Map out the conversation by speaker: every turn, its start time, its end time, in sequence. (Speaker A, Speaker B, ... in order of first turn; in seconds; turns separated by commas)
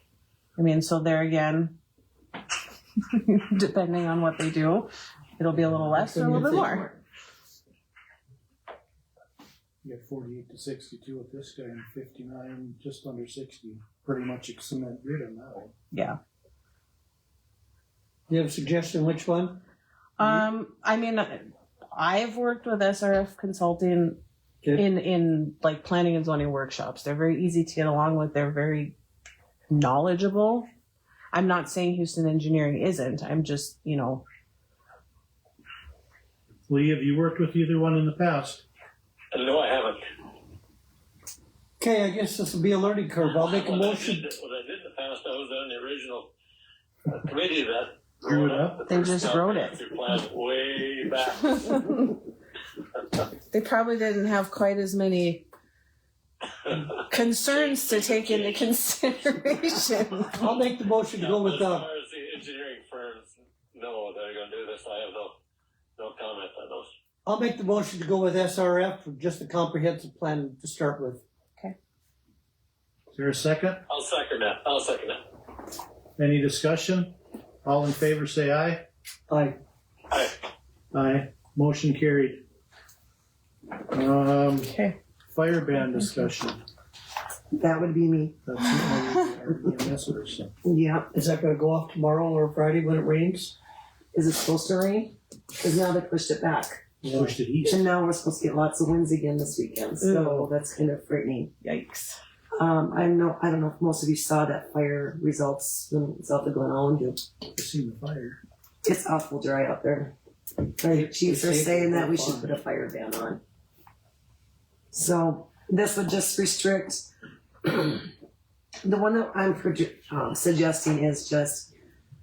Speaker A: 0.6-1.8, Speaker A: 3.1-7.0, Speaker B: 5.9-7.0, Speaker C: 9.8-15.7, Speaker A: 15.9-16.2, Speaker B: 18.3-19.6, Speaker A: 20.2-24.2, Speaker A: 24.8-28.9, Speaker A: 29.7-30.7, Speaker A: 31.3-34.2, Speaker C: 36.7-38.6, Speaker D: 39.3-40.0, Speaker B: 41.8-44.2, Speaker D: 43.2-46.3, Speaker D: 47.1-51.7, Speaker C: 48.2-48.9, Speaker A: 48.9-49.8, Speaker A: 51.5-52.0, Speaker A: 53.5-55.5, Speaker D: 56.7-58.7, Speaker A: 57.1-60.4, Speaker B: 60.4-61.9, Speaker D: 61.2-65.4, Speaker D: 66.0-66.9, Speaker B: 67.2-71.2, Speaker C: 73.1-73.8, Speaker D: 73.9-75.2, Speaker C: 76.2-78.8, Speaker B: 79.3-79.6, Speaker D: 80.1-80.4, Speaker C: 80.9-82.5, Speaker C: 83.9-84.7, Speaker A: 84.6-85.0, Speaker C: 85.3-86.6, Speaker E: 87.5-88.4, Speaker C: 88.5-90.5, Speaker E: 90.7-91.1, Speaker B: 91.1-93.5, Speaker E: 94.1-96.8, Speaker B: 97.0-97.3, Speaker C: 97.1-97.8, Speaker E: 97.7-101.5, Speaker A: 100.0-100.3, Speaker A: 101.6-102.2, Speaker E: 102.6-107.2, Speaker C: 107.5-108.4, Speaker E: 108.8-110.1, Speaker E: 110.8-113.4, Speaker B: 110.9-112.5, Speaker E: 114.9-117.1, Speaker E: 117.7-118.1, Speaker E: 118.8-121.7